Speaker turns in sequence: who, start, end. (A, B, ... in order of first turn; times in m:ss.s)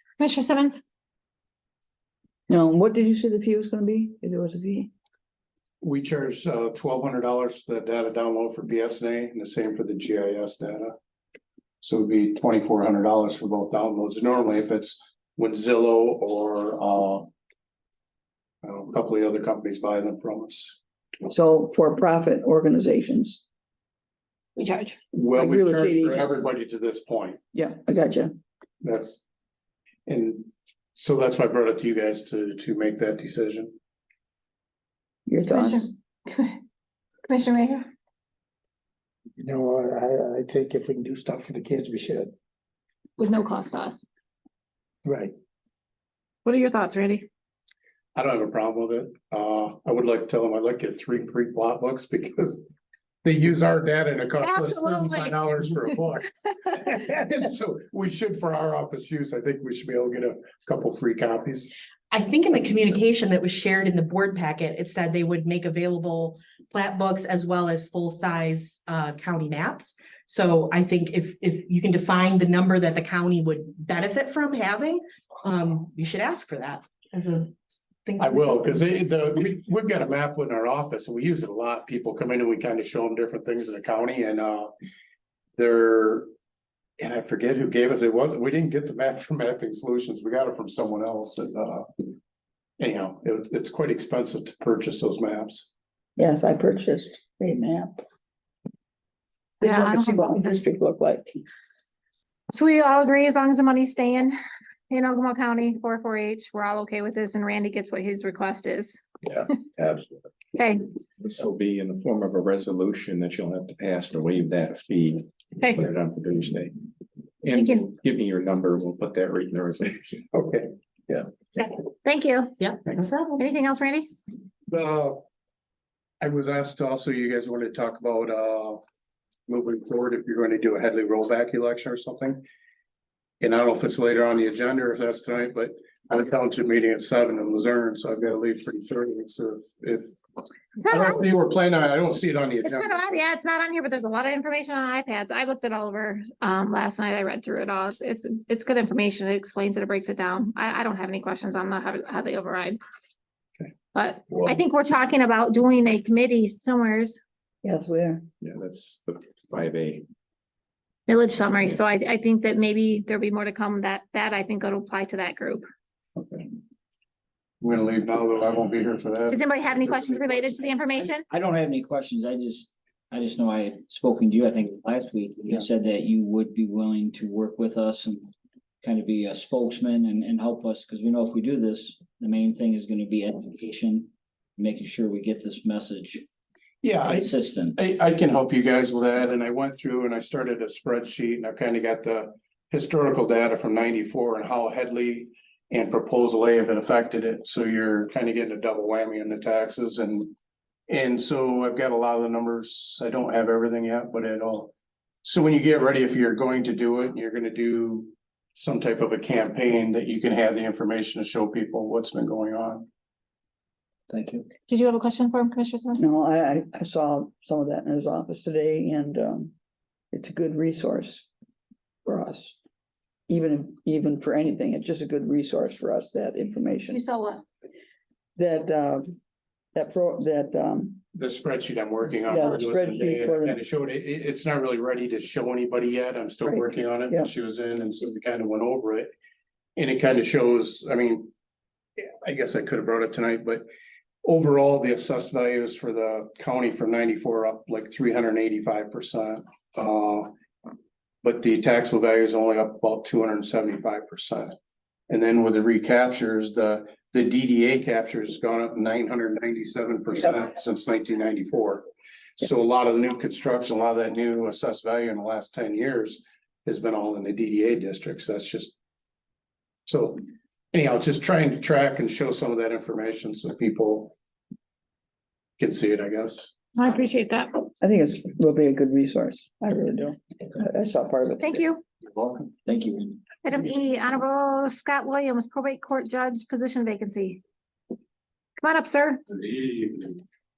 0:00.2-0:00.8 A
0:02.5-0:04.9 B
0:05.8-0:10.9 C
0:11.8-0:17.3 C
0:18.6-0:20.8 C
0:21.3-0:23.4 B
0:24.6-0:25.0 A
0:25.1-0:27.4 C
0:25.3-0:26.3 B
0:27.5-0:28.3 B
0:28.8-0:29.2 C
0:30.0-0:33.7 C
0:35.3-0:35.9 B
0:35.5-0:36.6 A
0:37.2-0:37.9 A
0:39.4-0:42.3 D
0:43.2-0:44.0 A
0:45.0-0:45.3 D
0:46.4-0:47.3 A
0:48.1-0:52.6 C
0:53.2-1:01.7 C
0:54.4-0:55.4 A
1:02.1-1:17.5 E
1:18.0-1:18.8 E
1:18.2-1:24.7 C
1:25.6-1:26.3 C
1:27.0-1:32.0 C
1:32.8-1:35.7 C
1:36.2-1:38.0 B
1:39.6-1:41.4 B
1:39.6-1:40.6 A
1:42.5-1:44.4 A
1:44.9-1:49.0 A
1:49.2-1:50.3 F
1:50.5-1:50.8 A
1:51.2-1:56.7 F
1:57.4-2:00.2 F
1:57.6-1:57.8 A
2:00.3-2:00.7 C
2:02.0-2:02.6 A
2:02.6-2:03.4 E
2:03.4-2:04.1 A
2:04.7-2:05.2 C
2:06.2-2:08.8 C
2:09.5-2:12.4 C
2:13.4-2:20.2 C
2:20.9-2:21.2 A
2:20.9-2:23.0 C
2:22.6-2:32.8 A
2:33.9-2:37.2 A
2:34.3-2:34.6 F
2:37.6-2:38.2 B
2:38.4-2:40.1 F
2:41.1-2:45.6 A
2:46.2-2:46.4 C
2:47.6-2:50.8 C
2:49.3-2:51.2 A
2:51.3-2:58.3 G
2:58.8-3:06.2 G
3:06.8-3:20.3 C
3:07.0-3:07.8 G
3:20.9-3:32.8 C
3:34.7-3:36.0 A
3:36.0-3:39.5 B
3:40.1-3:41.3 B
3:42.0-3:42.6 B
3:43.3-3:47.0 B
3:46.9-3:47.4 A
3:48.4-3:49.2 B
3:49.7-3:51.0 B
3:51.1-3:59.1 C
3:52.2-3:53.6 B
3:56.4-3:57.3 B
3:59.8-4:01.3 C
4:02.0-4:03.6 C
4:04.2-4:10.3 C
4:11.2-4:14.5 C
4:15.1-4:21.8 C
4:22.4-4:28.8 C
4:29.8-4:30.2 C
4:30.7-4:34.2 C
4:35.6-4:36.5 C
4:36.7-4:37.7 A
4:37.8-4:41.7 B
4:41.4-4:41.8 A
4:42.1-4:43.2 G
4:43.4-4:47.4 A
4:48.6-4:49.2 A
4:49.3-4:50.1 C